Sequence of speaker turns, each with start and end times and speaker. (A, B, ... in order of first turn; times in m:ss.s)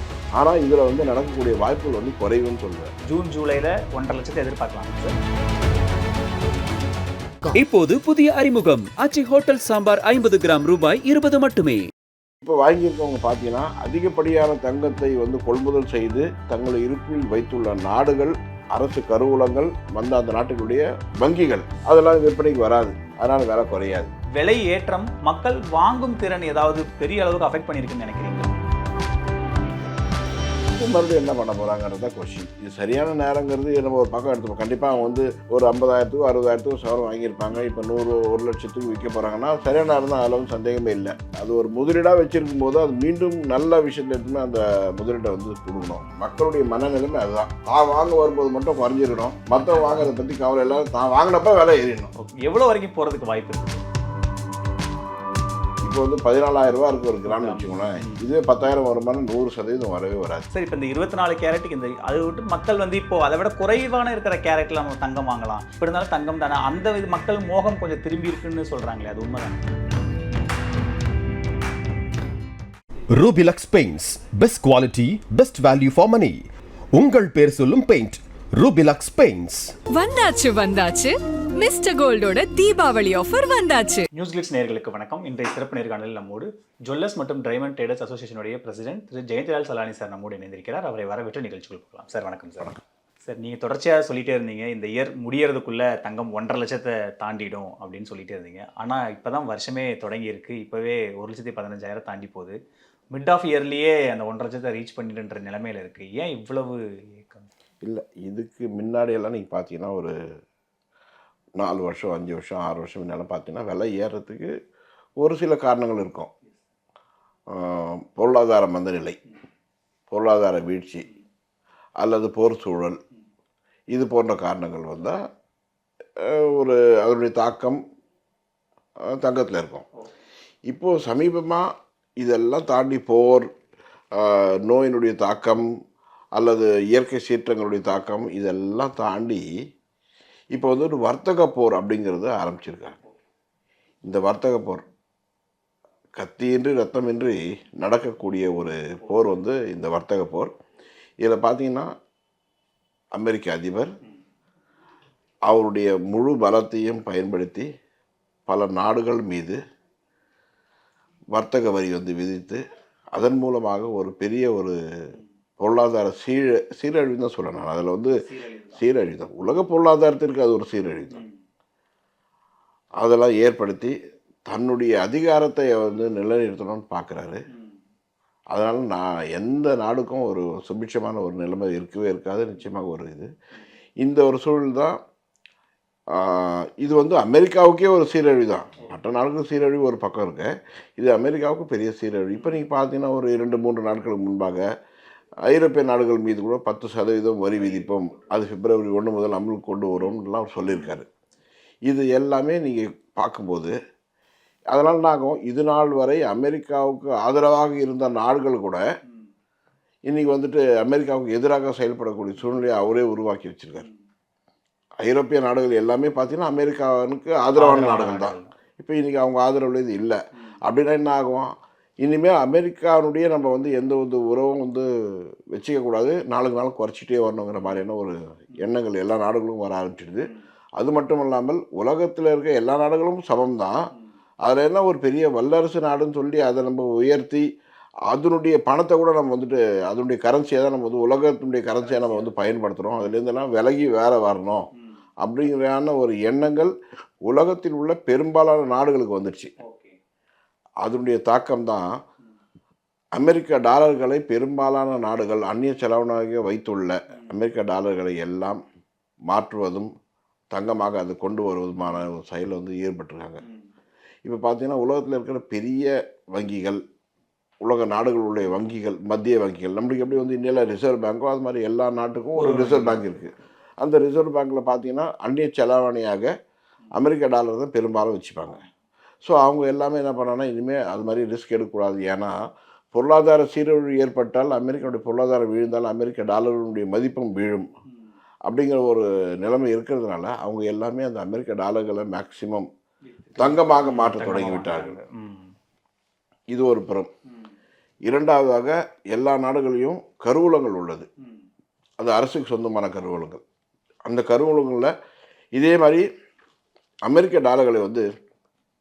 0:00.4-0:02.9 A
0:03.1-0:05.2 B
0:07.5-0:11.8 C
0:12.4-0:24.1 A
0:24.4-0:28.5 B
0:30.8-0:52.1 A
0:52.2-0:53.8 B
0:55.8-1:00.4 A
0:57.3-0:58.2 B
1:00.5-1:09.6 B
1:13.1-1:19.8 D
1:19.9-1:24.1 E
1:24.1-1:42.6 B
1:43.1-1:47.5 B
1:47.8-1:50.2 A
1:51.6-1:54.5 A
1:55.2-1:56.3 A
1:57.5-1:59.2 A
2:00.1-2:01.1 A
2:02.0-2:03.0 A
2:03.9-2:05.2 A
2:06.2-2:07.8 A
2:09.1-2:09.9 A
2:10.7-2:11.7 A
2:12.2-2:13.5 A
2:14.2-2:15.7 A
2:16.4-2:19.5 A
2:20.5-2:23.0 A
2:24.0-2:24.8 A
2:26.2-2:30.5 A
2:31.2-2:31.9 A
2:33.2-2:33.9 A
2:35.5-2:37.7 A
2:38.5-2:39.6 A
2:41.3-2:42.6 A
2:43.2-2:44.8 A
2:45.6-2:48.2 A
2:48.2-2:48.8 B
2:48.8-2:51.2 A
2:53.0-2:53.9 A
2:54.5-2:57.4 A
2:58.5-3:03.3 A
3:04.0-3:05.0 A
3:06.2-3:14.7 A
3:15.5-3:21.1 A
3:17.6-3:18.2 B
3:21.9-3:23.7 A
3:24.7-3:28.8 A
3:30.1-3:33.9 A
3:35.0-3:44.9 A
3:37.6-3:38.5 B
3:45.5-3:53.8 A
3:54.4-3:57.4 A
3:58.1-4:04.7 A
4:01.9-4:02.3 B
4:05.2-4:06.7 A
4:07.3-4:09.5 A
4:09.6-4:10.0 B
4:10.8-4:11.9 A
4:13.2-4:18.6 A
4:19.3-4:19.9 A
4:20.5-4:23.4 A
4:24.2-4:26.8 A
4:27.6-4:36.3 A
4:32.4-4:33.0 B
4:37.0-4:38.6 A
4:39.2-4:42.4 A
4:42.9-4:47.7 A
4:48.5-4:52.7 A
4:53.2-4:55.5 B
4:53.4-4:55.0 A
4:56.5-4:57.1 A
4:58.1-5:01.1 A
5:02.0-5:03.4 A
5:04.1-5:04.9 A
5:05.6-5:06.0 A
5:07.1-5:08.1 A